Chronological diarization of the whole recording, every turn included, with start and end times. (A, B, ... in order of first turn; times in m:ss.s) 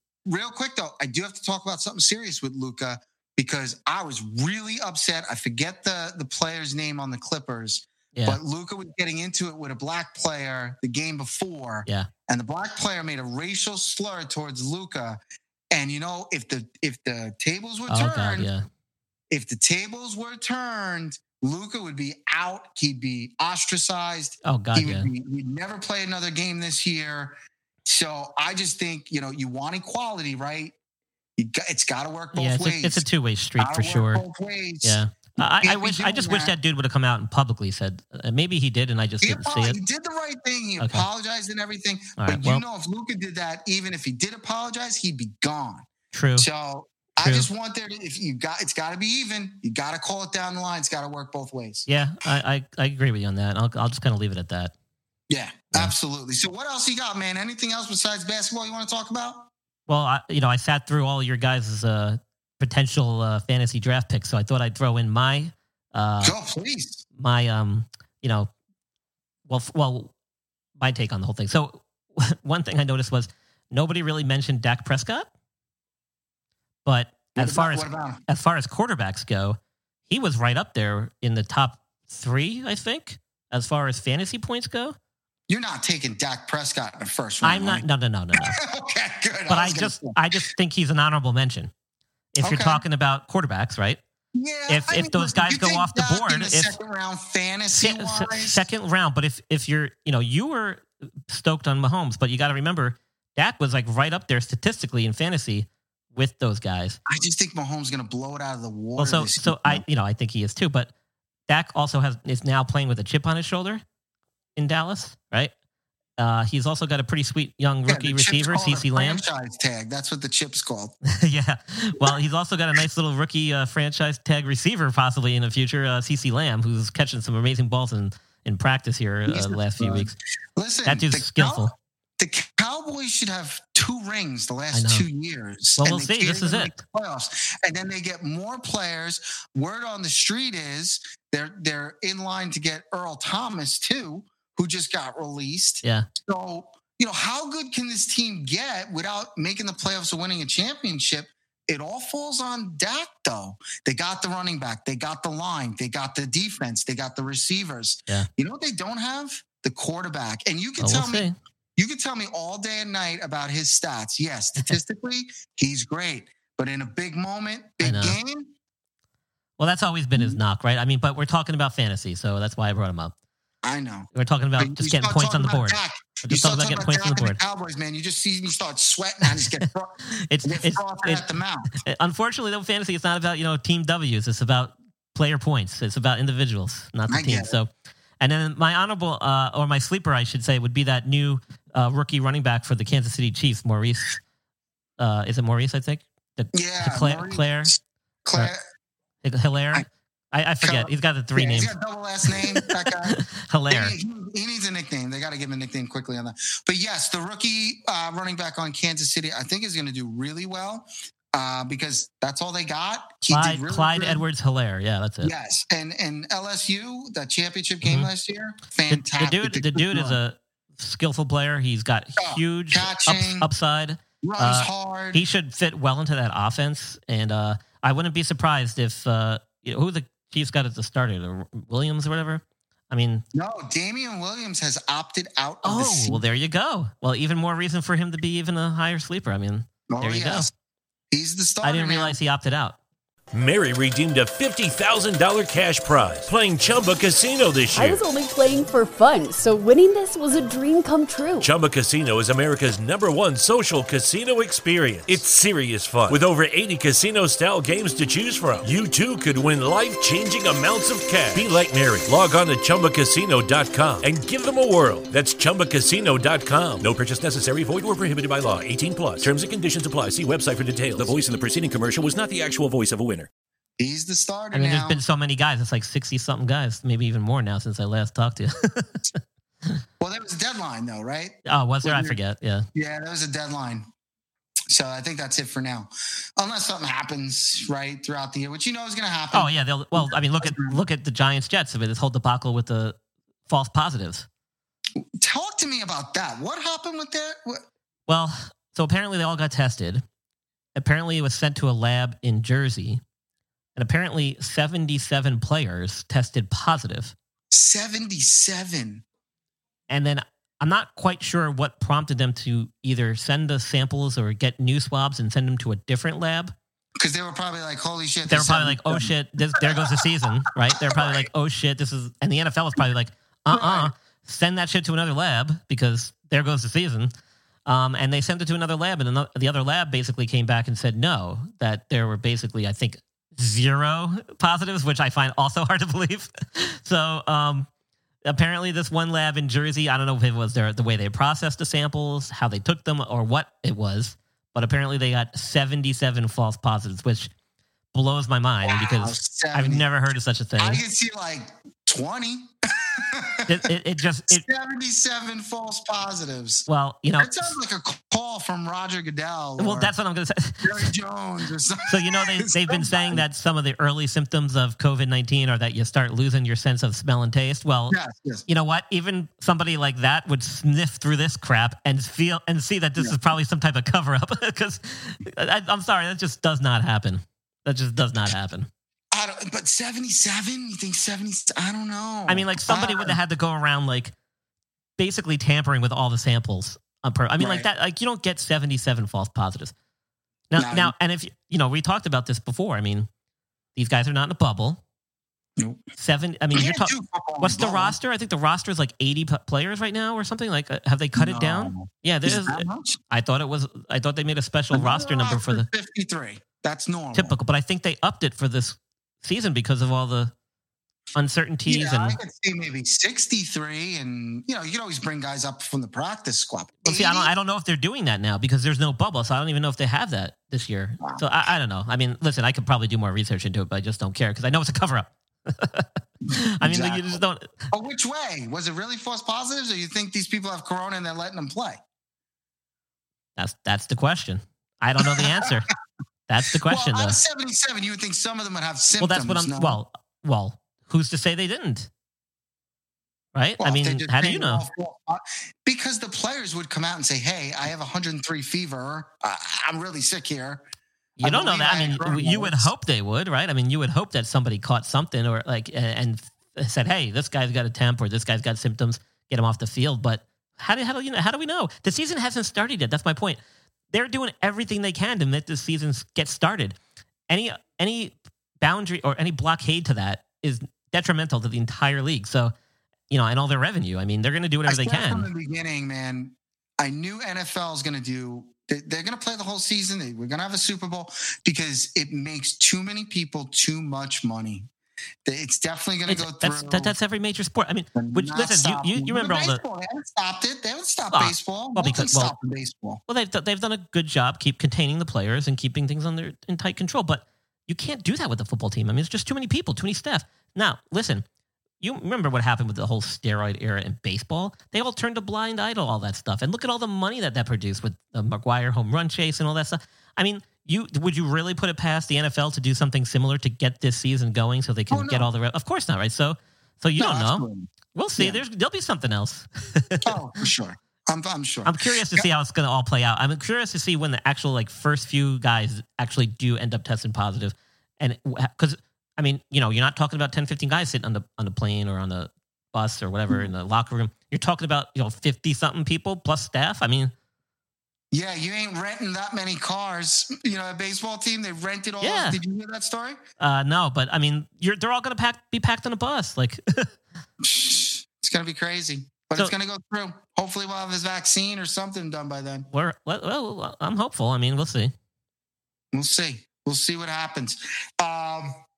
0:00.2-0:15.2 A
0:08.1-0:08.4 B
0:15.7-0:18.5 A
0:17.9-0:18.7 B
0:19.3-0:30.7 A
0:24.4-0:25.1 B
0:31.4-0:33.0 A
0:32.3-0:34.2 B
0:33.6-0:35.0 A
0:34.8-0:39.8 B
0:35.6-0:36.5 A
0:39.2-0:45.8 A
0:40.8-0:41.1 B
0:42.2-0:42.6 B
0:46.1-0:46.5 B
0:46.4-0:51.9 A
0:47.2-0:47.5 B
0:51.9-0:54.7 B
0:55.3-0:59.5 A
0:59.9-1:06.4 B
1:06.2-1:07.0 A
1:07.2-1:08.5 B
1:09.5-1:10.1 B
1:10.8-1:15.3 B
1:16.8-1:25.0 B
1:17.4-1:18.2 A
1:25.5-1:27.8 A
1:27.4-1:28.6 B
1:28.4-1:30.2 A
1:29.5-1:31.7 B
1:32.3-1:34.0 B
1:32.4-1:32.8 A
1:34.3-1:38.7 A
1:34.7-1:36.8 B
1:37.7-1:47.0 B
1:47.1-1:49.8 A
1:49.0-1:50.9 B
1:51.5-1:53.8 B
1:54.6-1:55.5 B
1:56.2-1:59.2 B
1:57.9-2:00.9 A
2:01.1-2:10.2 B
2:09.3-2:48.5 A
2:10.8-2:11.7 B
2:14.7-2:15.1 B
2:15.8-2:16.7 B
2:25.8-2:26.1 B
2:40.8-2:41.3 B
2:47.8-2:48.2 B
2:49.6-2:53.1 B
2:53.6-3:01.7 A
2:54.1-2:57.4 B
3:00.1-3:01.3 B
3:01.8-3:14.2 B
3:07.1-3:07.6 A
3:15.0-3:17.7 B
3:16.5-3:18.6 A
3:19.2-3:21.7 B
3:20.6-3:34.2 A
3:22.3-3:24.0 B
3:33.3-3:35.3 B
3:35.2-3:40.2 A
3:37.8-3:38.1 B
3:38.9-3:53.2 B
3:42.2-3:43.5 A
3:44.2-3:45.2 A
3:53.3-3:56.2 A
3:55.6-4:00.5 B
3:59.9-4:00.5 A
4:01.1-4:02.2 A
4:01.6-4:02.8 B
4:03.3-4:08.0 C
4:07.7-4:11.5 D
4:11.4-4:33.3 C
4:33.8-4:35.0 A
4:34.5-4:39.8 B
4:40.0-4:42.2 A
4:41.4-4:42.6 B
4:42.7-4:43.9 A
4:44.7-4:50.8 A
4:49.3-4:53.0 B
4:53.5-4:54.3 B
4:55.2-4:57.6 A
4:58.1-5:00.0 B
5:00.8-5:03.0 B
5:03.8-5:07.1 B
5:07.5-5:09.0 A
5:09.9-5:16.5 B
5:17.0-5:19.6 A
5:18.3-5:27.1 B
5:20.8-5:21.2 A
5:23.5-5:23.9 A
5:27.6-5:37.7 B
5:38.3-5:47.3 B
5:47.9-5:50.8 B
5:48.6-5:49.8 A
5:50.6-5:53.5 A
5:53.5-5:54.4 B
5:54.3-5:56.6 A
5:56.7-5:57.5 B
5:57.2-5:59.9 A
5:59.6-6:00.9 B
6:00.6-6:03.2 A
6:01.9-6:18.7 B
6:07.9-6:08.4 A
6:19.1-6:23.2 A
6:22.3-6:24.1 B
6:25.0-6:29.7 B
6:27.4-6:27.7 A
6:30.5-6:33.1 B
6:30.6-6:30.9 A
6:33.8-6:34.8 B
6:35.6-6:35.8 A
6:36.0-6:45.7 B
6:36.5-6:38.0 A
6:41.1-6:43.0 A
6:44.7-6:47.4 A
6:47.1-6:50.3 B
6:51.1-6:52.2 B
6:51.6-6:57.3 A
6:56.8-7:07.7 B
7:06.6-7:07.2 A
7:07.7-7:11.8 A
7:13.4-7:15.7 B
7:15.0-7:15.5 A
7:16.3-7:17.2 B
7:16.6-7:19.8 A
7:19.0-7:21.9 B
7:23.3-7:24.6 B
7:23.6-7:30.6 A
7:31.2-7:43.4 B
7:31.2-7:32.7 A
7:43.9-7:46.8 B
7:47.3-7:52.5 B
7:53.1-7:55.3 B
7:54.7-8:04.7 A
8:05.2-8:06.9 A
8:06.1-8:09.6 B
8:07.9-8:13.0 A
8:11.1-8:12.3 B
8:13.1-8:21.2 B
8:21.8-8:40.1 B
8:34.9-8:35.3 A
8:37.0-8:38.4 A
8:40.0-8:42.3 A
8:41.6-8:57.1 B
8:58.1-9:03.2 A
9:02.0-9:02.4 B
9:03.4-9:06.9 B
9:07.4-9:12.7 A
9:12.7-9:14.9 B
9:15.9-9:18.6 A